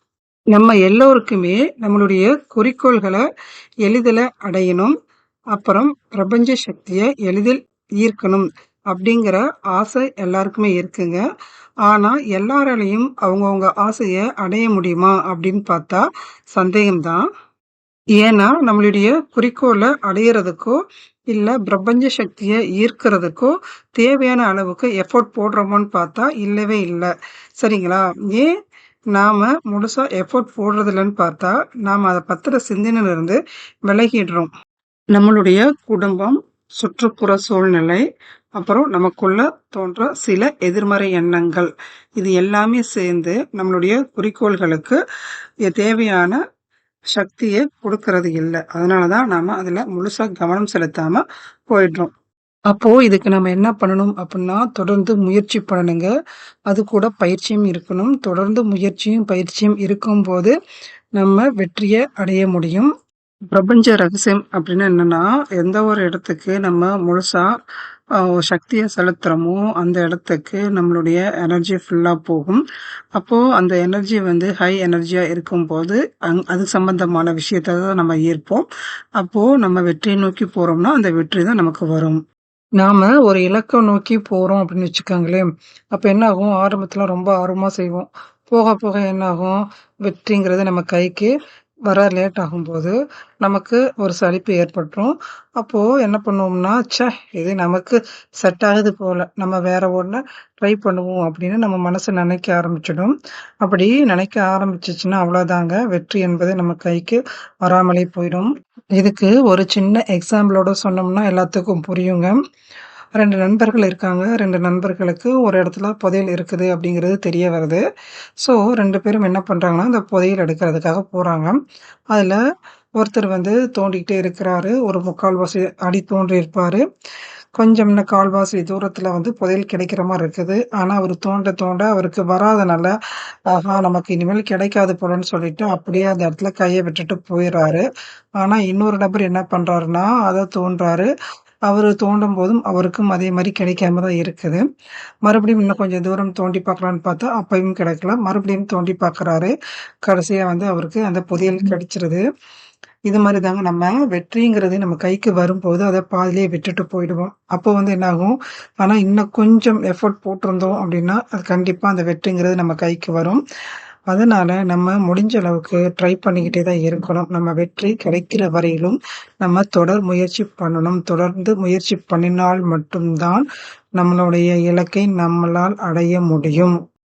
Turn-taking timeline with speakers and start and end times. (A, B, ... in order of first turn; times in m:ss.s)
0:00.5-0:03.2 A
0:03.8-0:04.9 A
0:05.5-0:11.2 A
0:11.8-0:17.2 A
0:18.2-0:20.8 A
0:21.3-0:28.5 A
0:29.1-0:34.5 A
0:35.1-0:38.0 A
0:38.6-0:45.0 A
0:45.7-0:46.4 A
0:47.1-0:52.1 A
0:52.7-0:56.1 A
0:56.7-1:00.5 A
1:01.2-1:02.9 A
1:03.5-1:07.5 A
1:08.2-1:12.6 A
1:13.2-1:18.6 A
1:19.2-1:22.2 A
1:22.8-1:31.3 A
1:31.9-1:52.4 A
1:53.2-1:57.8 A
1:58.4-2:01.6 A
2:02.1-2:02.4 A
2:03.0-2:06.8 A
2:07.6-2:12.9 A
2:13.5-2:17.8 A
2:18.4-2:21.1 A
2:21.7-2:24.6 A
2:25.2-2:32.2 A
2:33.1-2:43.4 A
2:44.1-2:53.4 A
2:54.0-2:56.8 A